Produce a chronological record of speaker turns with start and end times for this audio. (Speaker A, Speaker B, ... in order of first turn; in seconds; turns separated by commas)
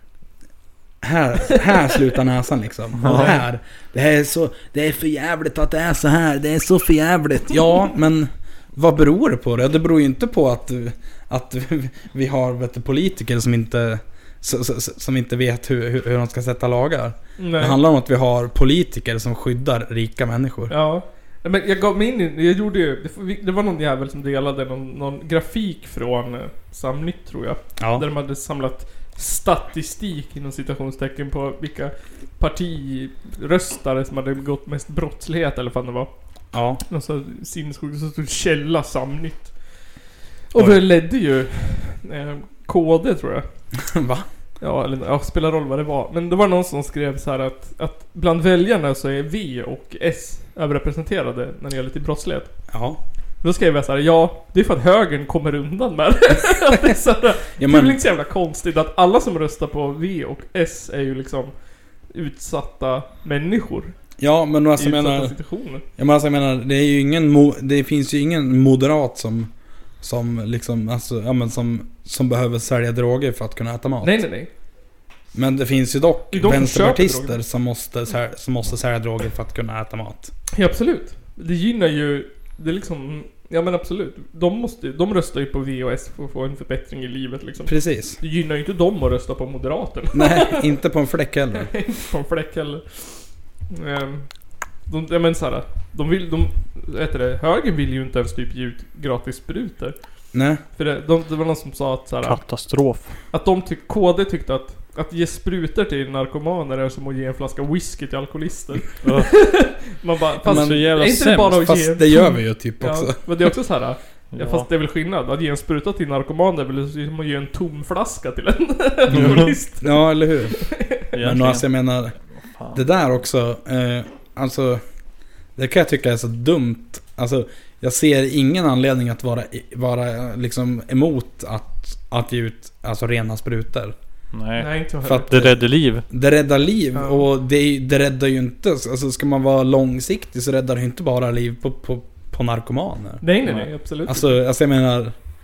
Speaker A: 1.0-20.7, Speaker B: 3.0-3.4, Speaker C: 3.1-3.4, Speaker C: 17.4-17.8, Speaker C: 20.7-36.1, Speaker A: 27.8-28.1, Speaker A: 36.5-36.8, Speaker C: 36.8-39.5, Speaker C: 40.5-43.5, Speaker A: 43.8-44.3, Speaker C: 44.6-52.5, Speaker A: 52.7-53.0, Speaker C: 53.4-61.5, Speaker A: 57.6-58.0, Speaker C: 62.1-63.9, Speaker A: 64.2-65.3, Speaker C: 64.8-65.8, Speaker A: 66.0-74.2, Speaker C: 74.0-74.5, Speaker A: 75.3-80.3, Speaker C: 76.3-77.4, Speaker C: 80.5-90.7, Speaker A: 87.7-88.2, Speaker A: 90.1-91.7, Speaker C: 91.6-94.3, Speaker C: 94.9-100.0, Speaker A: 100.3-100.6, Speaker C: 100.7-102.4, Speaker B: 102.2-103.1, Speaker C: 103.3-120.0, Speaker B: 109.0-109.4, Speaker A: 110.4-110.9, Speaker B: 110.4-111.7, Speaker A: 111.6-113.2, Speaker B: 114.3-114.7, Speaker B: 119.1-119.5, Speaker A: 119.1-120.6, Speaker C: 120.6-121.0, Speaker B: 121.1-121.6, Speaker A: 121.1-122.2, Speaker A: 122.7-124.8, Speaker A: 125.5-133.9, Speaker B: 134.3-134.7, Speaker C: 134.6-135.3, Speaker A: 135.1-143.2, Speaker B: 135.3-136.0, Speaker C: 136.9-137.2, Speaker C: 143.2-144.3, Speaker A: 144.1-145.1